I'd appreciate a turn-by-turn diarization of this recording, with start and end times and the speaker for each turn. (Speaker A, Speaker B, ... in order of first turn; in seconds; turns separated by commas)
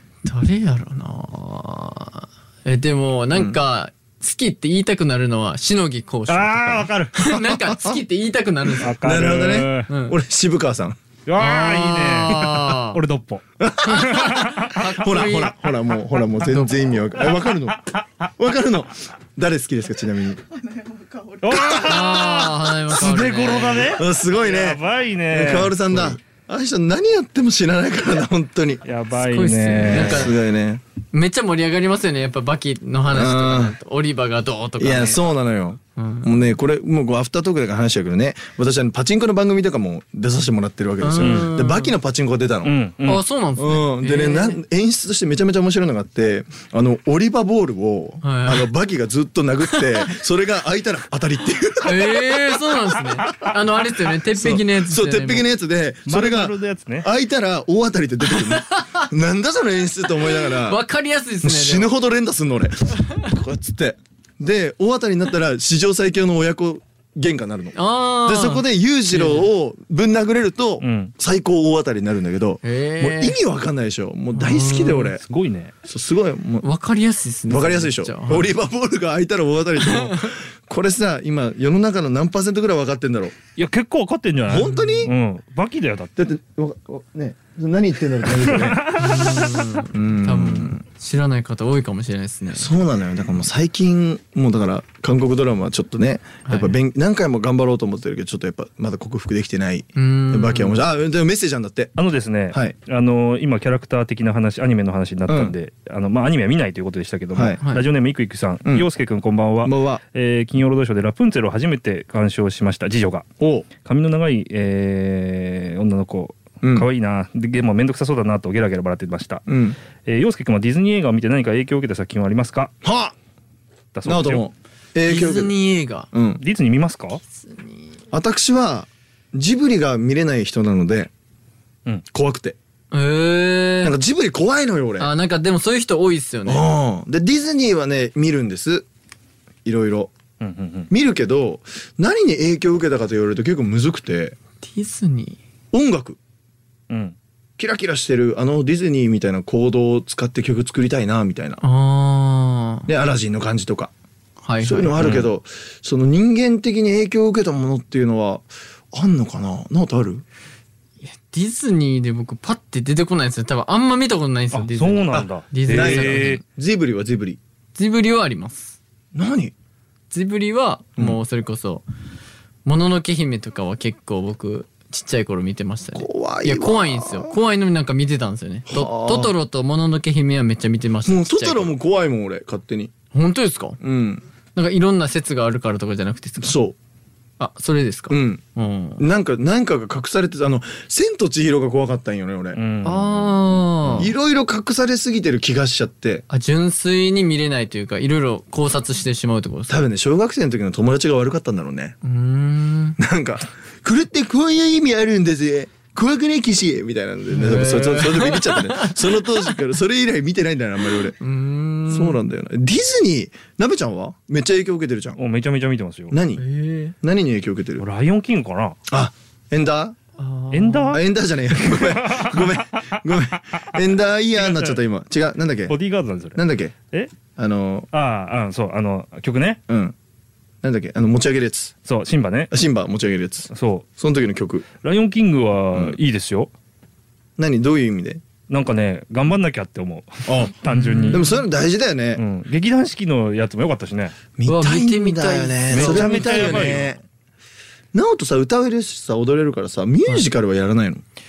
Speaker A: 0.2-9.0, Speaker B: 3.3-3.6, Speaker C: 6.3-7.2, Speaker B: 7.5-8.0, Speaker C: 8.8-9.9, Speaker B: 9.0-11.0, Speaker A: 9.9-10.2, Speaker C: 11.3-15.4, Speaker A: 11.4-13.0, Speaker B: 13.6-22.4, Speaker A: 13.8-15.6, Speaker A: 16.4-17.1, Speaker C: 21.4-26.2, Speaker A: 21.8-24.0, Speaker B: 23.9-28.9, Speaker C: 28.8-30.4, Speaker A: 29.1-30.4, Speaker B: 29.9-30.8, Speaker A: 31.1-35.2, Speaker B: 33.1-33.8, Speaker B: 34.8-42.7, Speaker A: 36.0-36.4, Speaker A: 41.0-41.9, Speaker C: 41.2-41.5, Speaker C: 42.6-43.2, Speaker A: 43.0-44.6, Speaker B: 43.6-53.5, Speaker A: 48.2-48.7, Speaker A: 51.8-55.5, Speaker B: 54.3-60.8, Speaker C: 56.0-57.1, Speaker A: 58.3-59.1, Speaker A: 60.2-61.9, Speaker B: 61.4-75.2, Speaker A: 67.8-69.5, Speaker C: 70.8-71.1, Speaker A: 72.6-73.4, Speaker A: 74.3-75.1, Speaker C: 75.2-75.7, Speaker B: 75.8-76.7, Speaker A: 76.6-78.5, Speaker B: 77.5-83.4, Speaker A: 79.8-80.3, Speaker C: 83.6-86.1, Speaker B: 84.5-85.1, Speaker A: 84.7-85.1, Speaker B: 86.2-88.8, Speaker C: 88.4-89.8, Speaker A: 89.0-92.7, Speaker B: 89.9-90.8, Speaker B: 92.5-102.0, Speaker A: 96.5-96.8, Speaker A: 100.0-100.8, Speaker C: 102.0-113.3, Speaker B: 102.5-102.8, Speaker B: 105.3-105.6, Speaker B: 107.3-107.6, Speaker A: 107.6-107.9, Speaker B: 109.6-110.0, Speaker B: 113.4-113.7, Speaker C: 113.8-119.5, Speaker B: 116.6-116.9, Speaker B: 119.5-119.8, Speaker C: 120.0-122.7, Speaker B: 122.8-123.2, Speaker C: 123.9-124.5, Speaker B: 124.0-125.5, Speaker A: 125.0-126.1, Speaker B: 126.1-126.4, Speaker C: 126.4-127.2, Speaker A: 127.4-128.0, Speaker B: 128.1-131.1, Speaker B: 132.1-132.6, Speaker A: 132.9-134.0, Speaker B: 133.8-135.1, Speaker A: 135.0-136.7, Speaker B: 136.5-138.9, Speaker B: 139.7-140.1, Speaker C: 140.4-140.9, Speaker B: 140.9-144.4, Speaker A: 144.6-145.4, Speaker B: 145.7-146.2, Speaker C: 146.9-147.2, Speaker B: 147.6-151.6, Speaker A: 151.6-152.9, Speaker B: 152.9-153.9, Speaker A: 154.4-154.9, Speaker B: 154.6-160.2, Speaker C: 155.0-155.3, Speaker A: 161.0-166.4, Speaker C: 164.5-166.4, Speaker B: 165.1-167.4, Speaker A: 167.8-168.8, Speaker B: 169.1-169.5, Speaker A: 170.1-171.8, Speaker A: 172.7-181.8, Speaker B: 175.9-177.4, Speaker B: 178.7-179.3, Speaker B: 181.1-182.9, Speaker A: 183.1-183.8, Speaker B: 183.8-184.2, Speaker A: 184.6-186.6, Speaker B: 186.4-186.8, Speaker A: 187.4-189.1, Speaker B: 188.1-188.4, Speaker B: 189.0-192.6, Speaker C: 192.6-194.1, Speaker A: 192.8-194.1, Speaker B: 194.0-196.2, Speaker A: 196.3-199.9, Speaker B: 199.7-202.0, Speaker A: 202.0-203.0, Speaker B: 203.0-211.2, Speaker A: 207.3-209.4, Speaker A: 211.2-212.2, Speaker B: 211.9-215.2, Speaker C: 215.2-216.2, Speaker B: 216.1-216.4, Speaker A: 216.4-216.9, Speaker B: 217.0-217.8, Speaker C: 217.8-218.8, Speaker B: 218.9-220.0, Speaker A: 220.2-221.0, Speaker C: 220.5-221.0, Speaker B: 220.9-225.8, Speaker C: 221.6-223.8, Speaker C: 224.4-224.8, Speaker C: 225.7-227.1, Speaker B: 226.3-226.7, Speaker B: 227.4-227.9, Speaker C: 227.9-229.6, Speaker B: 229.7-229.9, Speaker B: 230.6-231.7, Speaker C: 231.8-232.5, Speaker B: 232.5-234.7, Speaker C: 233.5-233.9, Speaker C: 234.8-236.5, Speaker B: 235.7-236.0, Speaker B: 237.4-238.2, Speaker C: 238.5-241.4, Speaker B: 240.3-242.2, Speaker A: 240.7-241.4, Speaker C: 242.2-244.2, Speaker B: 244.4-247.0, Speaker A: 244.5-246.9, Speaker C: 245.7-246.9, Speaker B: 247.9-251.0